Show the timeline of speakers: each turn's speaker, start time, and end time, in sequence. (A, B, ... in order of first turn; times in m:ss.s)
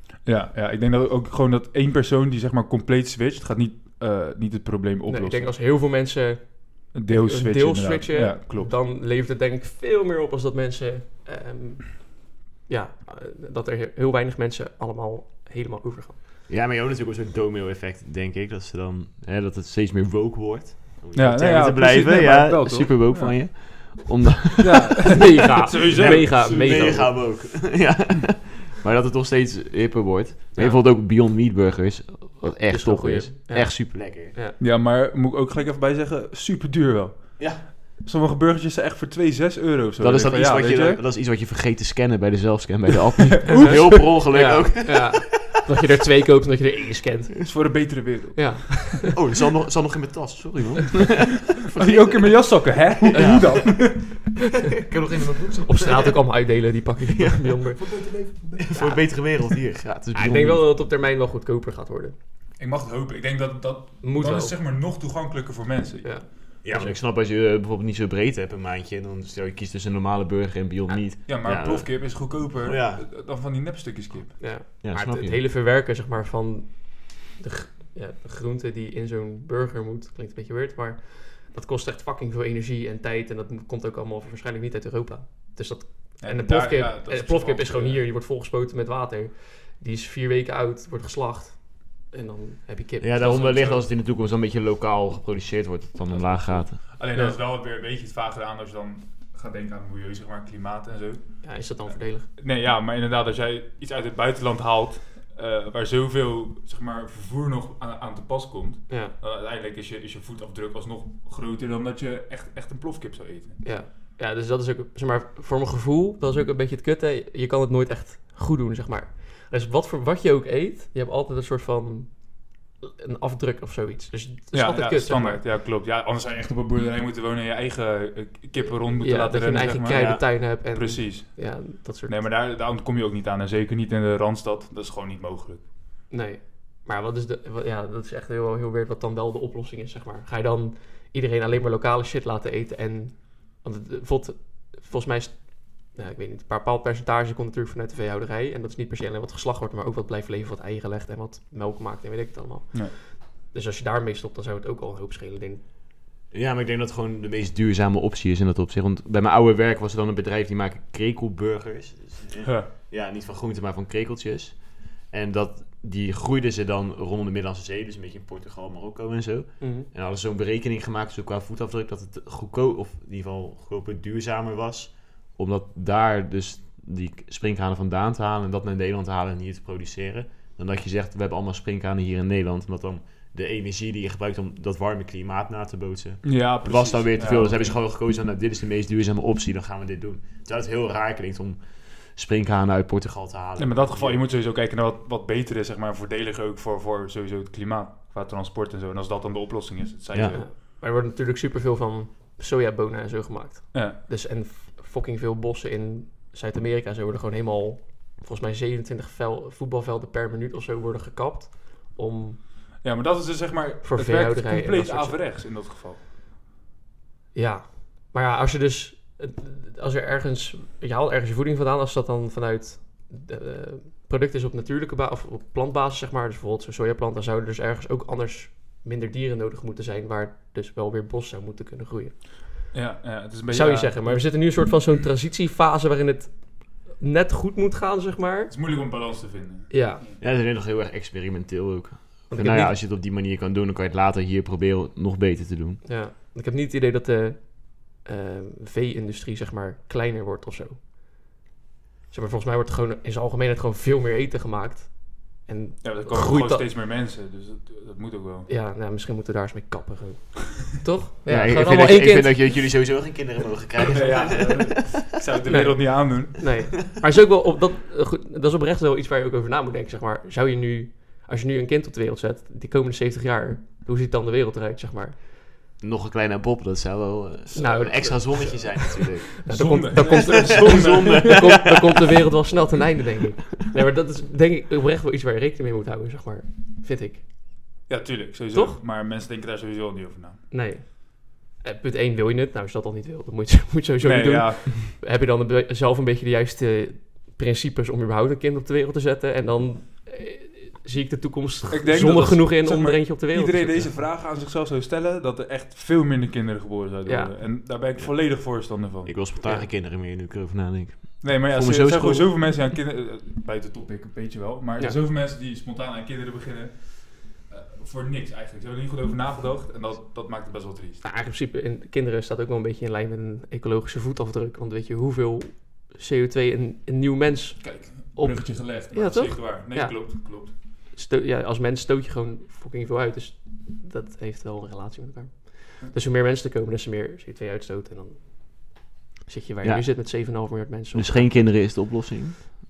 0:00.2-0:05.6 A
0:05.0-0:16.2 B
0:06.9-0:08.7 A
0:16.5-0:34.3 C
0:21.1-0:23.9 A
0:24.6-0:27.1 A
0:25.1-0:27.1 B
0:30.5-0:30.8 B
0:32.7-0:34.6 B
0:34.6-0:41.0 A
0:37.4-0:37.6 C
0:40.0-0:45.3 C
0:43.3-0:44.4 A
0:43.5-0:49.1 B
0:47.4-0:49.0 A
0:49.1-0:52.4 C
0:51.8-0:54.3 A
0:53.0-0:54.1 C
0:53.1-0:53.9 B
0:54.8-0:56.2 C
0:55.6-0:58.1 B
0:57.1-0:58.0 C
0:57.8-0:58.8 A
0:58.6-1:00.7 C
0:58.7-0:59.3 B
1:00.1-1:02.1 B
1:02.6-1:06.4 A
1:04.0-1:04.5 B
1:06.0-1:07.0 B
1:06.6-1:13.1 C
1:11.2-1:14.4 A
1:14.4-1:33.3 B
1:14.8-1:15.4 C
1:26.2-1:28.1 A
1:33.0-1:36.8 C
1:33.2-1:33.8 A
1:36.1-1:53.6 A
1:37.1-1:37.4 B
1:41.4-1:42.3 B
1:53.6-2:05.4 B
2:04.5-2:15.7 A
2:09.0-2:12.2 B
2:09.9-2:10.2 C
2:16.1-2:35.6 B
2:36.3-3:14.2 C
2:49.6-2:49.9 B
3:06.2-3:07.8 A
3:13.6-3:20.6 A
3:20.1-3:20.4 C
3:20.3-3:32.4 B
3:23.7-3:24.0 A
3:32.8-3:36.0 A
3:33.8-3:35.2 B
3:37.3-3:52.7 B
3:52.7-3:54.6 A
3:53.5-3:58.5 B
3:58.5-4:00.2 A
3:59.7-4:00.0 B
4:00.2-4:05.8 C
4:02.3-4:02.8 B
4:05.8-4:10.8 B
4:12.1-4:16.7 B
4:15.8-4:18.5 A
4:18.5-4:22.7 B
4:21.3-4:25.0 C
4:23.8-4:26.7 A
4:25.4-4:35.2 B
4:35.8-4:41.9 C
4:37.5-4:47.2 B
4:39.4-4:41.6 A
4:47.9-4:50.4 A
4:48.5-4:48.8 B
4:50.5-5:03.9 B
4:54.0-4:54.8 A
5:01.7-5:09.2 A
5:07.0-5:07.4 B
5:08.0-5:12.3 C
5:09.4-5:09.7 B
5:11.2-5:21.1 A
5:21.0-5:41.3 B
5:27.6-5:30.6 A
5:39.6-5:40.0 C
5:40.9-5:42.6 C